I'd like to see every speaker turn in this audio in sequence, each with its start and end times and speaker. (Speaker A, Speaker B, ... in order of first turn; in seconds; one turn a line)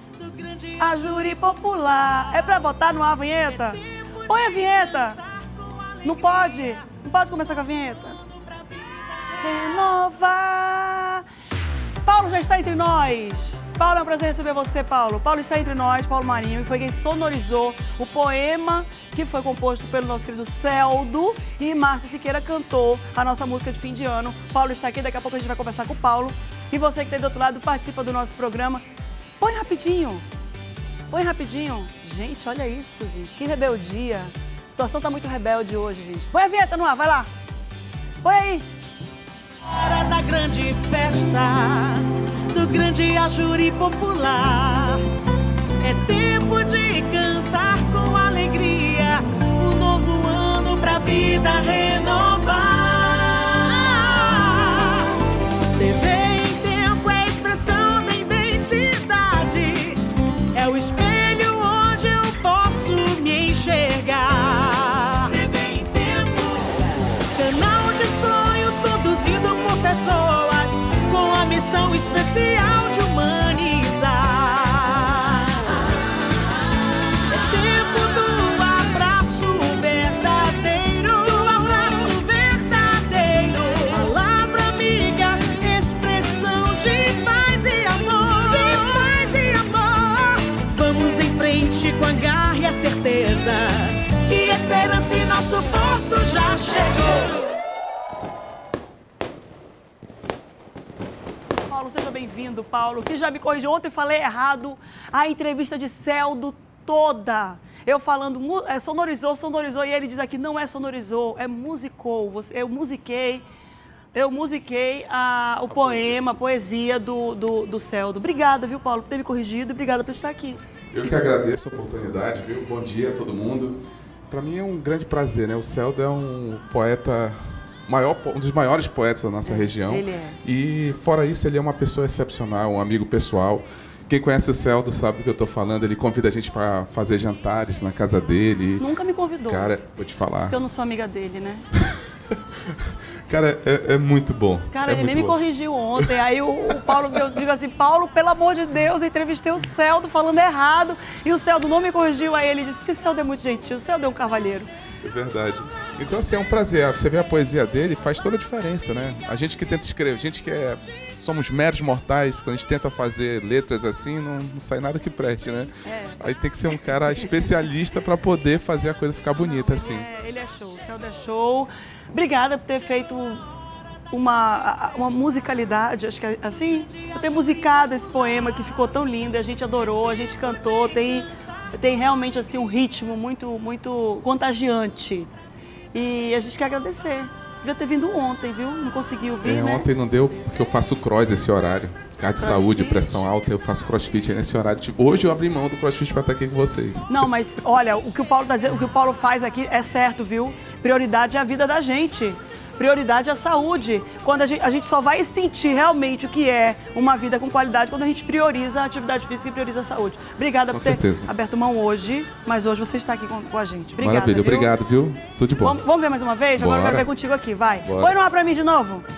Speaker A: 0.2-9.8
Speaker B: 0.8-5.2
Speaker B: 6.0-8.2
Speaker B: 9.4-11.2
Speaker B: 12.1-28.8
Speaker B: 29.4-30.2
Speaker B: 31.1-37.3
Speaker B: 38.2-38.6
Speaker A: 39.6-45.0
Speaker A: 45.8-55.2
Speaker A: 55.8-60.0
Speaker A: 60.5-97.5
Speaker B: 101.7-113.4
Speaker B: 114.1-120.6
Speaker C: 115.7-116.1
Speaker C: 120.9-123.8
Speaker C: 124.3-138.9
Speaker B: 129.4-130.4
Speaker B: 138.8-139.7
Speaker C: 139.5-140.6
Speaker B: 140.5-141.6
Speaker C: 143.2-145.4
Speaker B: 144.7-154.7
Speaker C: 155.0-170.1
Speaker B: 165.8-166.2
Speaker B: 169.4-173.4
Speaker B: 174.1-185.3
Speaker B: 185.9-189.9
Speaker C: 189.4-197.2
Speaker B: 192.4-193.2
Speaker B: 197.1-214.7
Speaker C: 210.7-211.3
Speaker C: 214.0-215.8
Speaker B: 215.6-219.1
Speaker C: 216.6-217.1
Speaker C: 217.8-218.1